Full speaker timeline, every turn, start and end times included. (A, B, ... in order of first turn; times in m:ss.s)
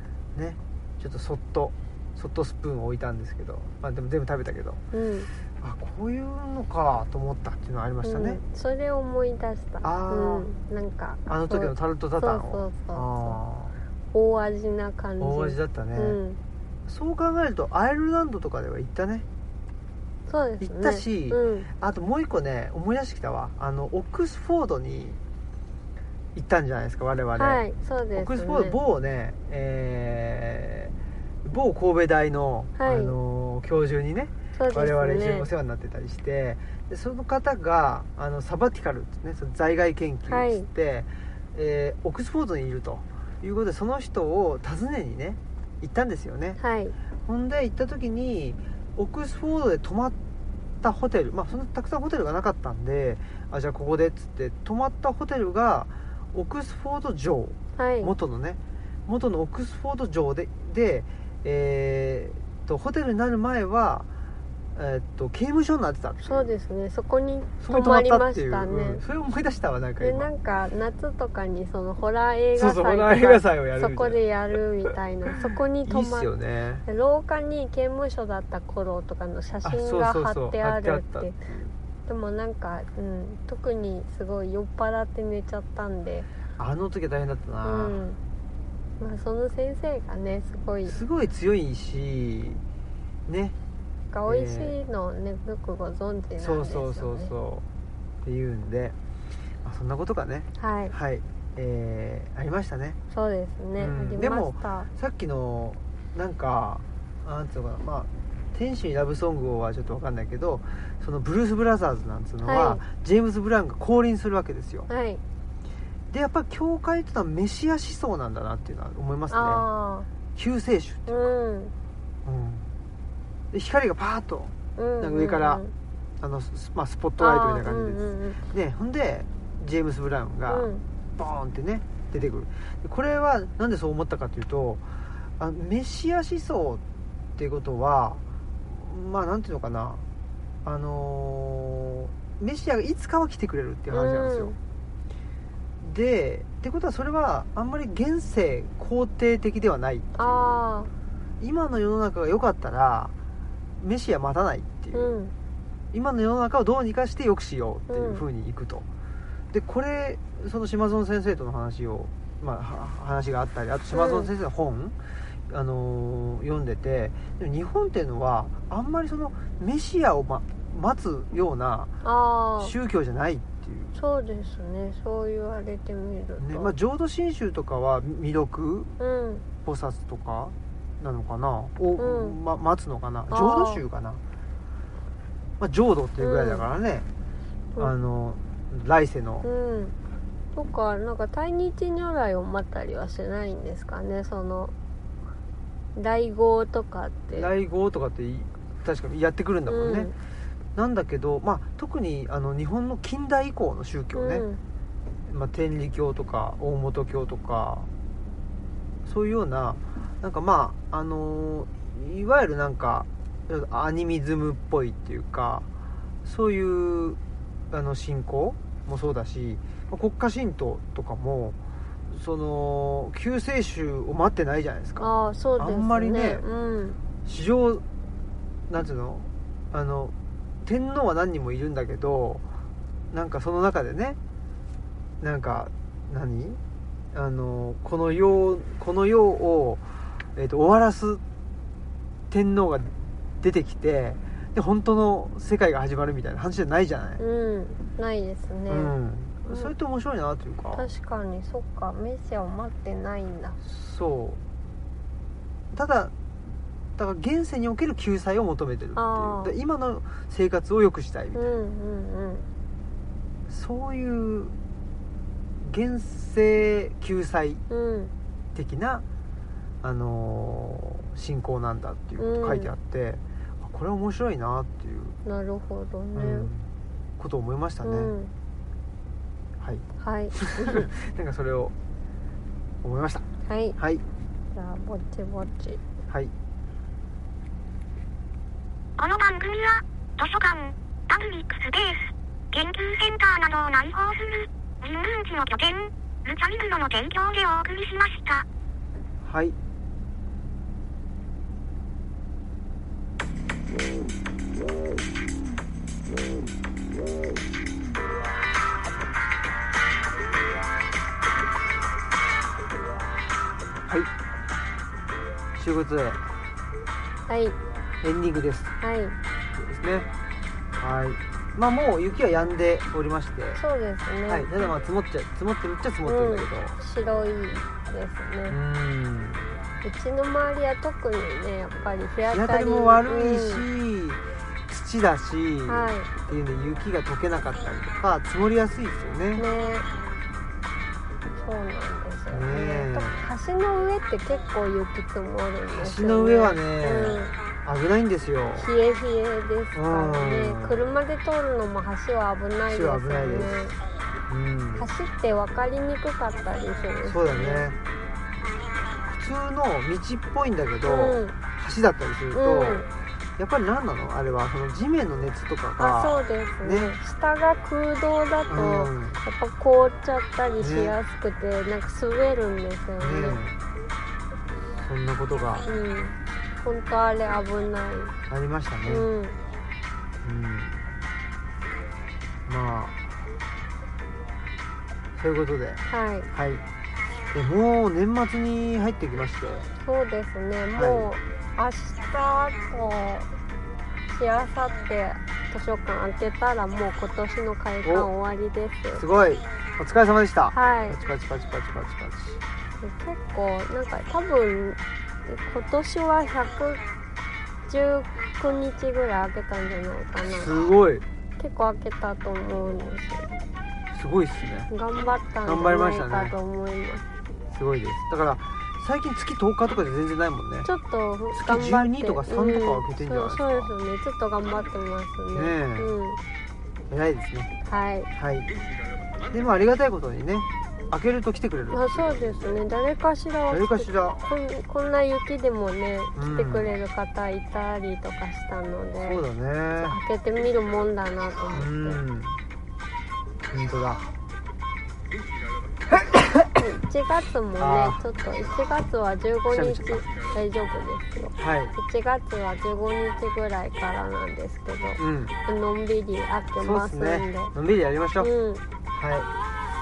0:00.3-0:04.8 A
0:04.9-0:05.3 B
0:05.6-0:08.4 A
0:08.0-0:13.4 B
0:09.8-0:10.5 A
0:11.3-0:13.8 A
0:14.1-0:16.4 B
0:15.2-0:16.2 A
0:16.9-0:19.2 A
0:20.3-0:21.7 B
0:20.6-0:25.2 A
0:26.3-0:27.6 A
0:27.3-0:28.8 B
0:28.1-0:30.9 A
0:31.4-0:46.6 A
0:32.8-0:33.2 B
0:34.5-0:35.5 B
0:40.3-0:40.7 B
0:46.6-0:47.0 B
0:47.2-0:50.2 A
0:50.8-1:04.1 A
0:57.8-0:58.1 B
1:04.7-1:06.5 A
1:06.2-1:09.0 B
1:07.6-1:10.3 A
1:10.0-1:16.3 B
1:12.6-1:14.2 A
1:15.3-1:16.8 A
1:16.8-1:21.4 B
1:19.6-1:21.7 A
1:22.0-1:26.3 B
1:26.6-1:28.0 A
1:27.6-1:28.2 B
1:29.0-1:31.0 B
1:30.8-1:32.6 A
1:33.3-1:33.5 A
1:34.1-1:37.3 B
1:34.3-1:34.8 A
1:36.4-1:37.6 A
1:38.2-1:39.0 A
1:39.6-1:43.0 A
1:40.6-1:40.9 B
1:43.1-1:44.9 B
1:43.8-1:54.9 A
1:52.4-1:52.8 B
1:54.9-1:55.2 B
1:56.1-1:59.6 A
1:59.3-2:00.1 B
2:00.3-2:01.3 A
2:01.1-2:01.7 B
2:02.2-2:02.7 A
2:03.5-2:05.6 A
2:04.8-2:05.7 B
2:06.2-2:16.8 A
2:07.2-2:08.4 B
2:10.5-2:10.8 B
2:17.4-2:20.0 A
2:20.6-2:24.5 A
2:23.9-2:24.6 B
2:25.8-2:30.6 A
2:30.2-2:30.9 B
2:31.4-2:33.1 A
2:33.8-2:35.1 A
2:34.9-2:35.3 B
2:35.9-2:38.8 A
2:37.9-2:38.2 B
2:39.5-2:45.0 A
2:43.9-2:44.3 B
2:45.5-2:51.9 A
2:52.0-2:52.7 B
2:52.6-2:54.0 A
2:53.9-2:56.7 B
2:56.4-2:59.0 A
2:59.0-2:59.4 B
2:59.6-3:04.2 A
3:02.0-3:02.4 B
3:03.3-3:03.8 B
3:05.6-3:07.0 A
3:06.2-3:06.7 B
3:07.8-3:09.5 A
3:09.4-3:09.9 B
3:10.5-3:14.7 B
3:15.9-3:17.5 B
3:17.3-3:20.1 A
3:19.7-3:20.1 B
3:20.8-3:24.4 A
3:24.1-3:24.6 B
3:25.3-3:27.9 A
3:29.0-3:35.7 A
3:36.2-3:37.2 A
3:37.7-3:41.6 A
3:42.1-3:46.4 A
3:45.0-3:47.0 B
3:47.2-3:47.8 A
3:48.7-3:52.4 A
3:53.1-3:54.2 A
3:55.2-3:56.6 A
3:57.1-4:01.2 A
4:02.3-4:07.2 A
4:07.2-4:08.9 B
4:08.7-4:10.9 A
4:09.4-4:09.7 B
4:10.7-4:13.6 B
4:13.6-4:14.4 A
4:15.7-4:16.1 A
4:17.0-4:21.4 A
4:19.0-4:19.5 B
4:21.3-4:22.5 B
4:23.5-4:24.5 A
4:25.6-4:27.6 A
4:27.7-4:28.1 B
4:28.5-4:29.0 A
4:29.8-4:35.2 A
4:32.2-4:32.7 B
4:35.2-4:36.5 B
4:36.1-4:38.1 A
4:37.8-4:38.3 B
4:39.6-4:41.7 A
4:40.0-4:40.9 B
4:42.8-4:43.2 A
4:43.4-4:43.8 B
4:43.8-4:44.0 A
4:44.5-4:45.8 B
4:49.0-4:58.4 C
4:59.2-4:59.6 A
5:15.5-5:16.2 A
5:17.3-5:17.6 B
5:18.0-5:18.7 A
5:18.8-5:19.2 B
5:19.6-5:20.1 A
5:20.8-5:23.6 A
5:23.6-5:24.7 B
5:24.2-5:26.8 A
5:26.0-5:28.6 B
5:28.5-5:29.7 A
5:29.8-5:33.6 B
5:32.3-5:39.4 A
5:35.7-5:36.1 B
5:39.4-5:39.9 B
5:41.3-5:47.4 B
5:42.3-5:43.3 A
5:45.7-5:48.7 A
5:48.6-5:53.8 B
5:49.7-5:50.9 A
5:52.7-5:53.7 A
5:54.3-5:54.9 A
5:54.7-5:57.7 B
5:57.0-5:57.8 A
5:59.1-6:06.9 A
6:00.8-6:01.3 B
6:02.3-6:02.9 B
6:05.8-6:13.4 B
6:08.5-6:09.2 A
6:10.6-6:11.0 A
6:13.0-6:13.6 A
6:14.7-6:15.6 A
6:15.6-6:18.1 B
6:18.3-6:19.1 A
6:18.8-6:19.4 B
6:20.2-6:21.0 A
6:22.4-6:23.2 A
6:25.2-6:26.6 A
6:25.9-6:26.3 B
6:27.3-6:29.7 A
6:29.8-6:33.3 B
6:30.7-6:31.1 A
6:34.1-6:39.0 B
6:37.8-6:38.1 A
6:39.0-6:42.4 A
6:40.5-6:41.0 B
6:42.8-6:46.8 B
6:47.7-6:50.5 B
6:50.2-6:51.0 A
6:51.4-6:53.4 B
6:53.9-6:54.7 A
6:54.7-6:57.0 B
6:55.4-6:56.3 A
6:57.5-7:00.7 A
7:00.6-7:06.2 B
7:01.3-7:03.7 A
7:05.3-7:05.9 A
7:06.9-7:07.5 A
7:07.6-7:08.1 B
7:08.2-7:08.5 A
7:09.3-7:12.6 A
7:11.7-7:19.2 B
7:13.5-7:14.2 A
7:16.2-7:16.7 A
7:19.0-7:20.0 A
7:19.7-7:22.0 B
7:21.5-7:22.4 A
7:23.5-7:24.0 A
7:26.0-7:26.4 A
7:26.6-7:37.5 B
7:27.6-7:28.0 A
7:29.5-7:30.0 A
7:31.4-7:31.7 A
7:35.0-7:35.3 A
7:36.6-7:38.3 A
7:38.2-7:38.6 B
7:38.9-7:39.3 A